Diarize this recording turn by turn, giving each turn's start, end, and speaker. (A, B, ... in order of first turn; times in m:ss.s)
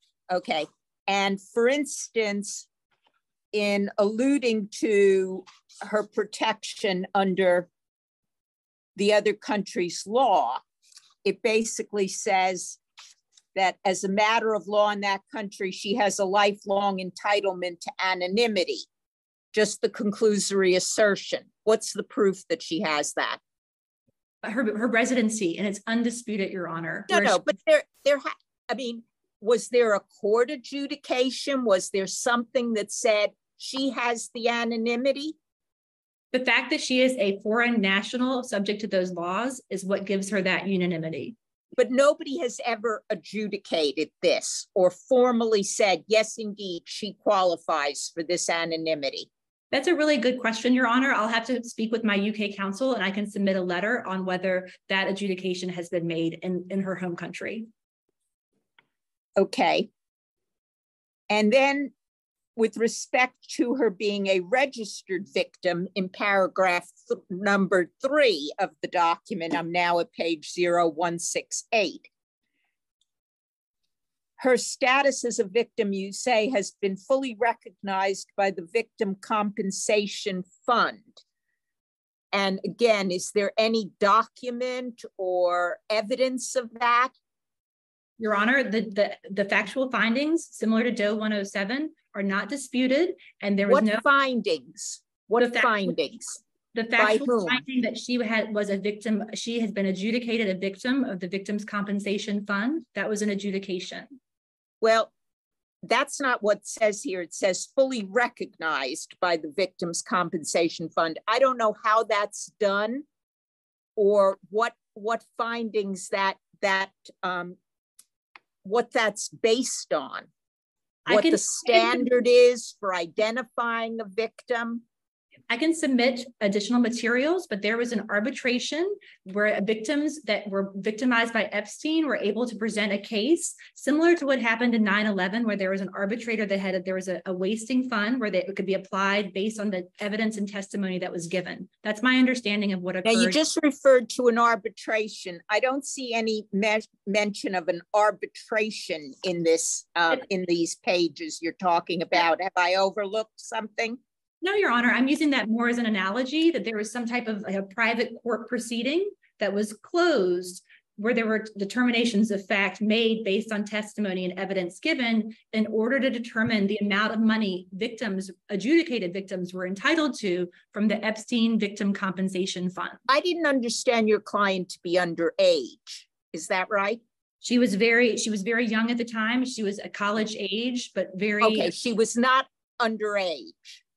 0:00.3-0:02.6 A
0:03.5-0:07.7 A
0:09.0-0:10.6 A
0:11.2-0:12.8 A
0:13.5-0:18.9 A
0:19.5-0:23.4 A
0:24.4-0:27.4 B
0:27.1-0:35.4 A
0:36.3-0:41.4 B
0:41.8-0:49.3 A
0:49.7-0:57.7 B
0:59.4-0:59.9 A
1:01.3-1:01.9 A
1:02.6-1:12.1 A
1:14.4-1:21.2 A
1:22.3-1:27.1 A
1:28.2-1:34.0 B
1:33.7-1:36.4 A
1:35.4-1:36.0 B
1:36.7-1:44.1 B
1:37.0-1:37.6 A
1:44.8-1:45.1 A
1:45.8-1:53.0 A
1:54.0-1:57.6 A
1:58.6-2:00.3 A
2:01.1-2:02.1 B
2:01.1-2:04.8 A
2:05.5-2:23.4 B
2:23.0-2:34.0 A
2:34.4-2:53.0 B
2:53.1-2:57.0 A
2:57.4-3:01.7 B
3:01.4-3:03.8 A